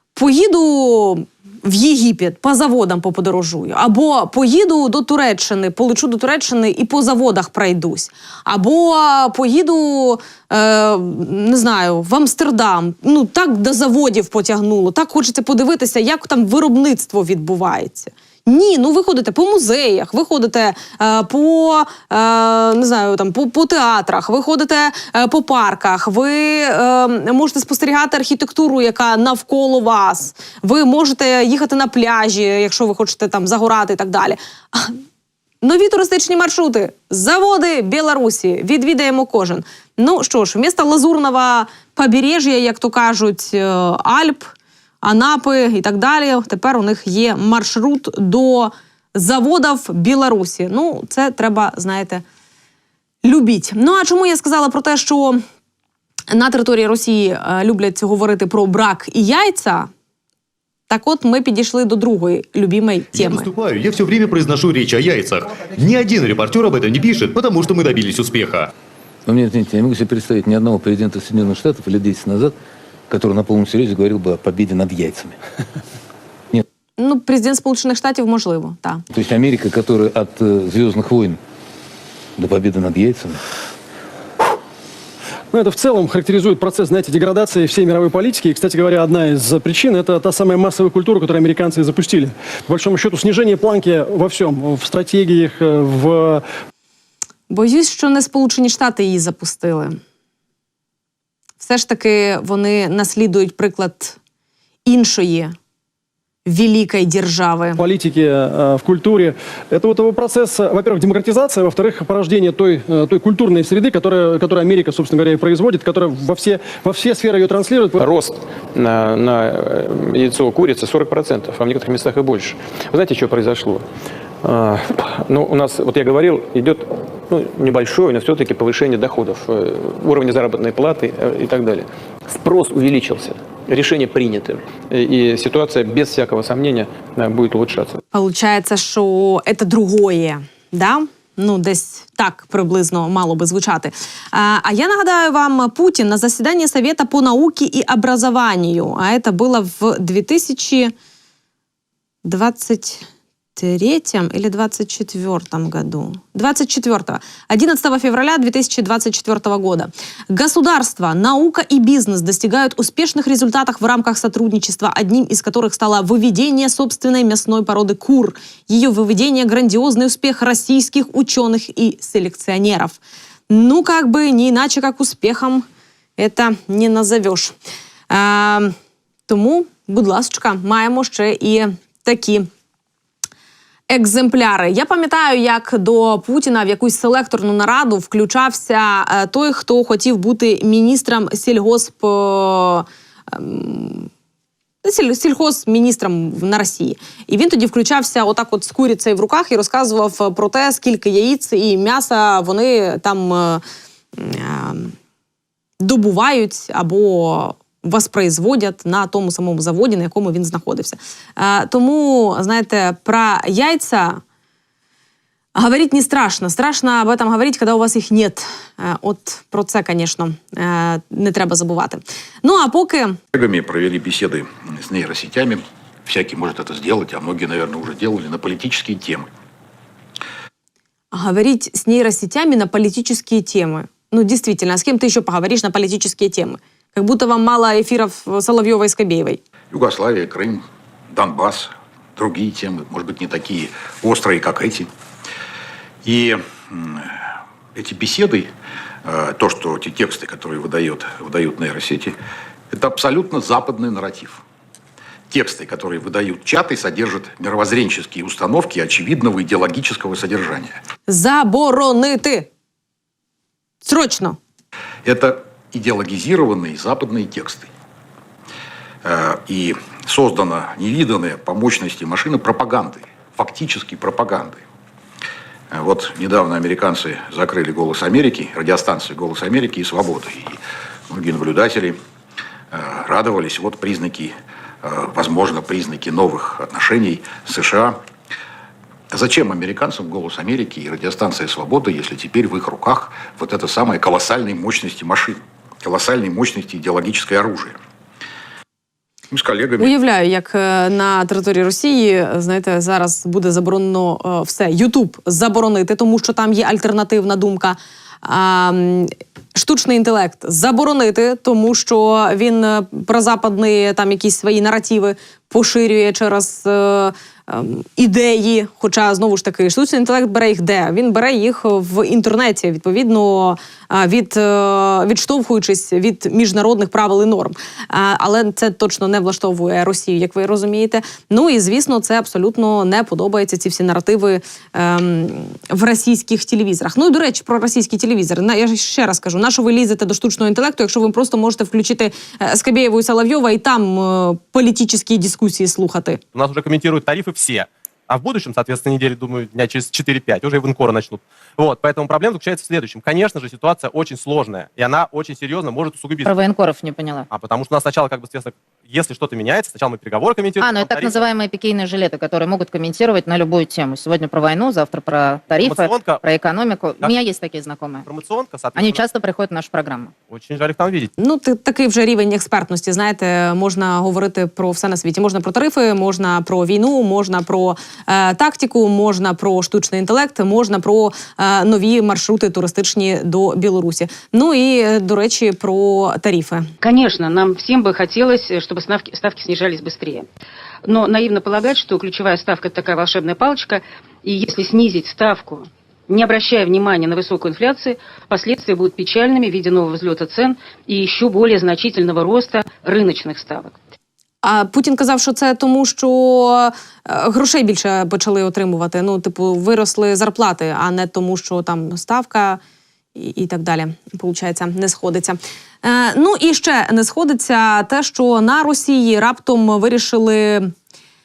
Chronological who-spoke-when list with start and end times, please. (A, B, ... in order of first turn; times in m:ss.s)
0:00.2-0:34.9 A
0:35.6-0:44.4 A
0:45.0-0:52.2 A
0:53.2-0:55.4 A
0:56.3-0:59.9 A
1:00.9-1:03.5 A
1:03.1-1:08.7 B
1:09.2-1:12.5 C
1:13.1-1:15.4 C
1:17.0-1:19.0 A
1:19.1-1:21.4 C
1:22.4-1:23.4 C
1:25.5-1:36.4 D
1:37.5-1:40.0 A
1:41.6-1:44.2 A
1:44.9-1:45.5 A
1:46.4-1:47.8 A
1:47.8-1:58.1 D
1:58.0-2:03.9 E
2:04.4-2:18.0 E
2:18.1-2:30.9 A
2:32.2-2:55.7 A
2:56.2-2:57.6 A
2:58.1-2:58.7 A
2:59.3-3:02.5 A
3:03.9-3:14.1 A
3:14.8-3:23.6 A
3:24.2-3:24.9 A
3:25.8-3:34.2 A
3:35.6-3:43.2 A
3:43.3-3:49.3 F
3:51.1-3:59.4 A
3:59.7-4:04.9 F
4:06.0-4:07.2 F
4:07.8-4:08.5 F
4:09.0-4:12.2 F
4:12.7-4:14.4 F
4:15.3-4:20.8 F
4:21.1-4:22.5 A
4:23.8-4:24.4 A
4:25.0-4:27.7 F
4:29.0-4:34.6 F
4:35.7-4:42.0 F
4:42.7-4:48.0 F
4:49.1-4:57.8 F
4:59.3-4:59.9 F
4:59.8-5:46.2 A
5:46.3-5:56.4 G
5:56.3-5:57.3 H
5:57.3-6:01.3 G
6:00.6-6:08.1 H
6:05.6-6:06.2 G
6:08.1-6:09.1 G
6:08.8-6:10.1 H
6:10.3-6:11.1 G
6:11.2-6:26.7 A
6:26.8-6:30.3 I
6:30.8-6:43.8 I
6:44.4-6:52.6 A
6:53.2-7:00.7 A